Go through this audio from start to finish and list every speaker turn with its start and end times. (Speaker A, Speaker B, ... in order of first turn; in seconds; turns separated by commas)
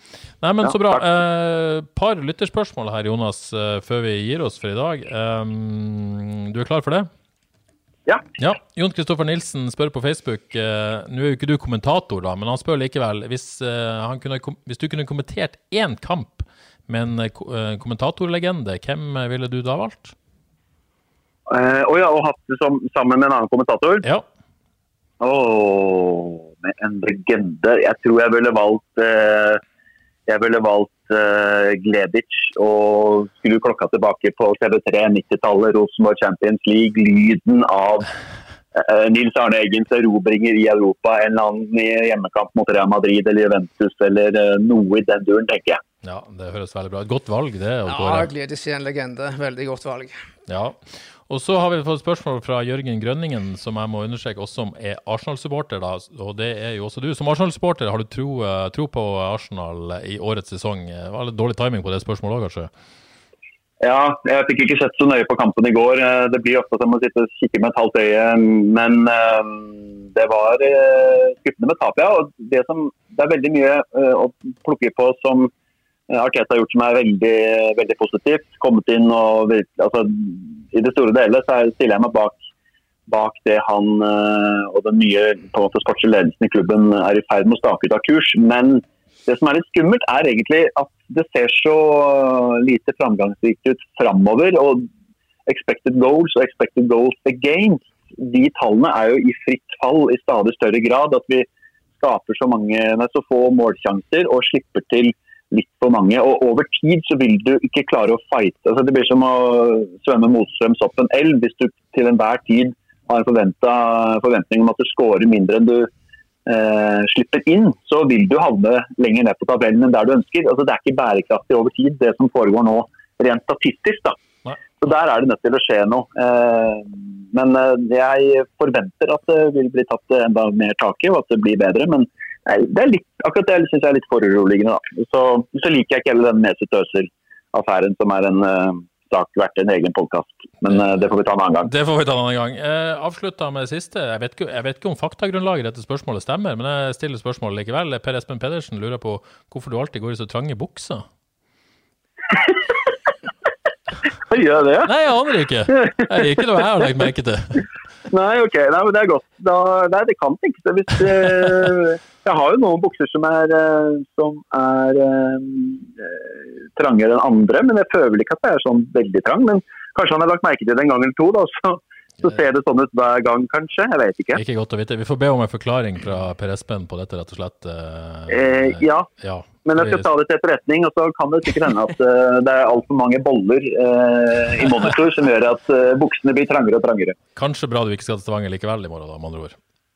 Speaker A: 0.4-7.1, Speaker B: 0.6-1.0, Speaker A: 8.4-20.1, Speaker B: 21.5-24.0, Speaker B: 25.2-29.6, Speaker B: 30.3-38.1, Speaker B: 38.7-45.8, Speaker A: 46.0-48.3, Speaker C: 47.9-50.1, Speaker A: 50.5-62.7, Speaker B: 63.8-75.5, Speaker B: 76.1-82.4, Speaker B: 83.1-94.8, Speaker B: 95.5-101.5, Speaker B: 102.0-115.9, Speaker B: 116.5-124.2, Speaker B: 124.8-141.7, Speaker A: 140.7-141.0, Speaker A: 141.6-151.0, Speaker B: 154.3-154.9, Speaker A: 154.8-157.6, Speaker B: 158.1-174.4, Speaker A: 174.3-180.1, Speaker B: 178.3-179.1, Speaker B: 179.6-187.2, Speaker A: 187.3-189.5